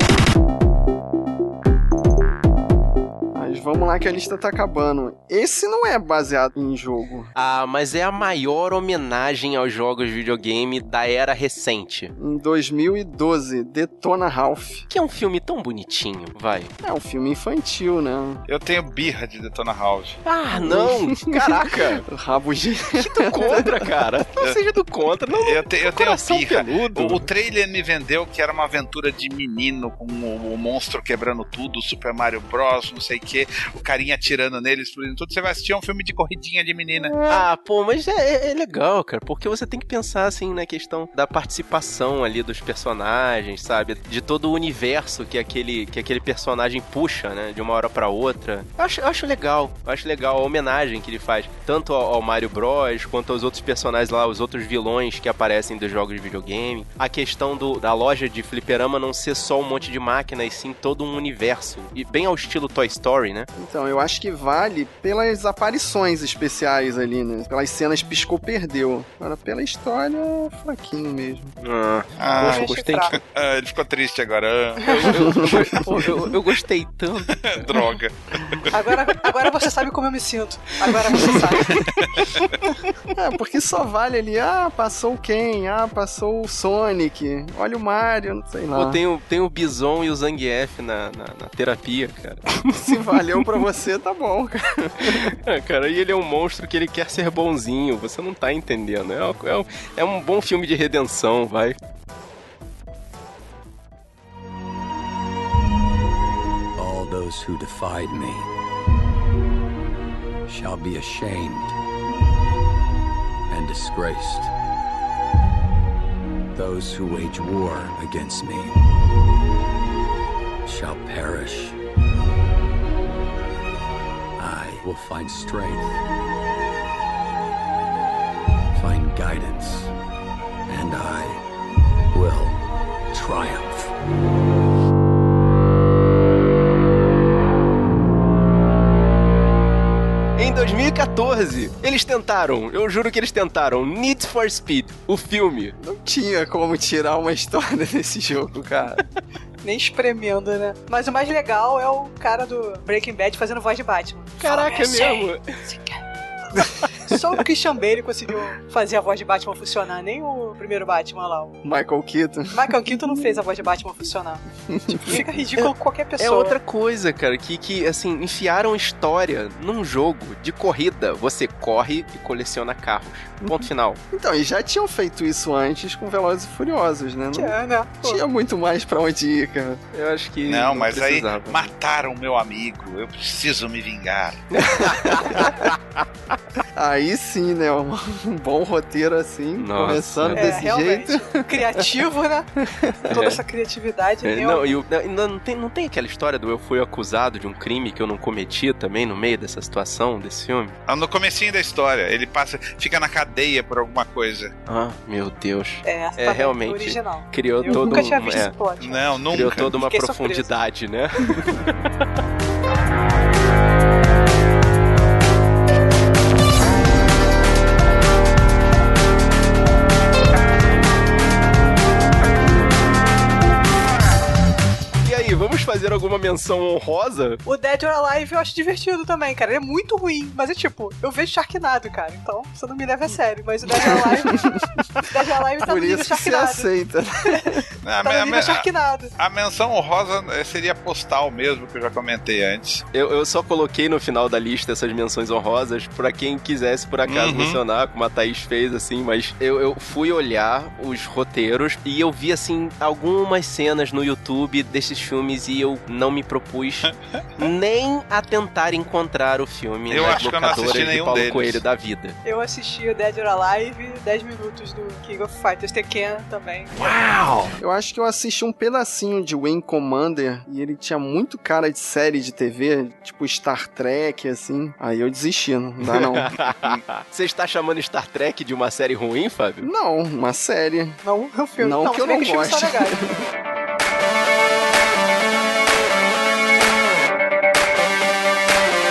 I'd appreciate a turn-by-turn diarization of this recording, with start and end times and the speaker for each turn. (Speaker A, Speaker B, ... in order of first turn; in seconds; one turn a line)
Speaker A: 3.3-7.3
Speaker B: 7.3-12.1
Speaker A: 12.2-14.8
Speaker B: 14.9-16.7
Speaker A: 16.8-18.4
Speaker C: 18.5-20.2
Speaker B: 20.2-22.1
Speaker A: 20.5-21.6
Speaker A: 22.1-23.9
Speaker B: 23.0-27.2
Speaker C: 25.4-37.2
Speaker B: 37.3-63.5
Speaker A: 63.6-71.6
Speaker B: 71.6-73.1
Speaker C: 72.2-75.3
Speaker D: 72.4-73.2
Speaker B: 74.8-77.7
Speaker A: 75.2-76.0
Speaker C: 77.5-78.7
Speaker D: 78.7-81.8
Speaker C: 82.2-82.6
Speaker A: 83.1-89.0
Speaker B: 88.7-92.8
Speaker A: 92.8-95.2
Speaker B: 95.2-101.8
Speaker E: 106.8-108.5
Speaker E: 110.5-111.7
Speaker E: 113.5-114.5
Speaker E: 116.5-118.8
Speaker E: 120.7-121.8
Speaker E: 124.4-126.0
Speaker E: 128.7-129.9
Speaker E: 130.7-131.4
Speaker E: 132.1-132.6
Speaker E: 133.1-133.9
Speaker B: 140.4-145.7
Speaker A: 145.8-149.0
Speaker D: 149.6-154.7
Speaker B: 154.4-155.5
Speaker A: 156.6-156.9
Speaker D: 156.6-161.6
Speaker A: 161.6-163.4
Speaker D: 162.5-166.6
Speaker A: 164.7-165.2
Speaker B: 165.6-174.0
Speaker A: 173.4-179.8
Speaker D: 177.3-178.2
Speaker B: 179.9-181.7
Speaker C: 180.5-184.4
Speaker B: 184.5-185.8
Speaker A: 186.7-191.8
Speaker B: 189.6-190.6
Speaker D: 190.3-192.5
Speaker A: 192.6-193.2
Speaker B: 193.1-193.4
Speaker D: 193.1-194.8
Speaker B: 194.2-200.8
Speaker C: 200.9-204.5
Speaker B: 204.7-208.6
Speaker D: 205.8-210.5
Speaker A: 207.7-208.1
Speaker C: 208.8-209.7
Speaker B: 209.3-211.7
Speaker B: 225.0-227.4
Speaker D: 227.4-236.7
Speaker A: 233.7-235.0
Speaker A: 235.6-237.6
Speaker C: 237.8-242.8
Speaker D: 238.0-239.1
Speaker B: 242.9-262.2
Speaker C: 247.1-247.6
Speaker C: 259.9-261.6
Speaker D: 262.2-266.7
Speaker B: 266.8-267.5
Speaker A: 267.6-276.3
Speaker B: 275.9-279.7
Speaker A: 279.6-281.0
Speaker D: 281.0-283.0
Speaker A: 281.6-283.1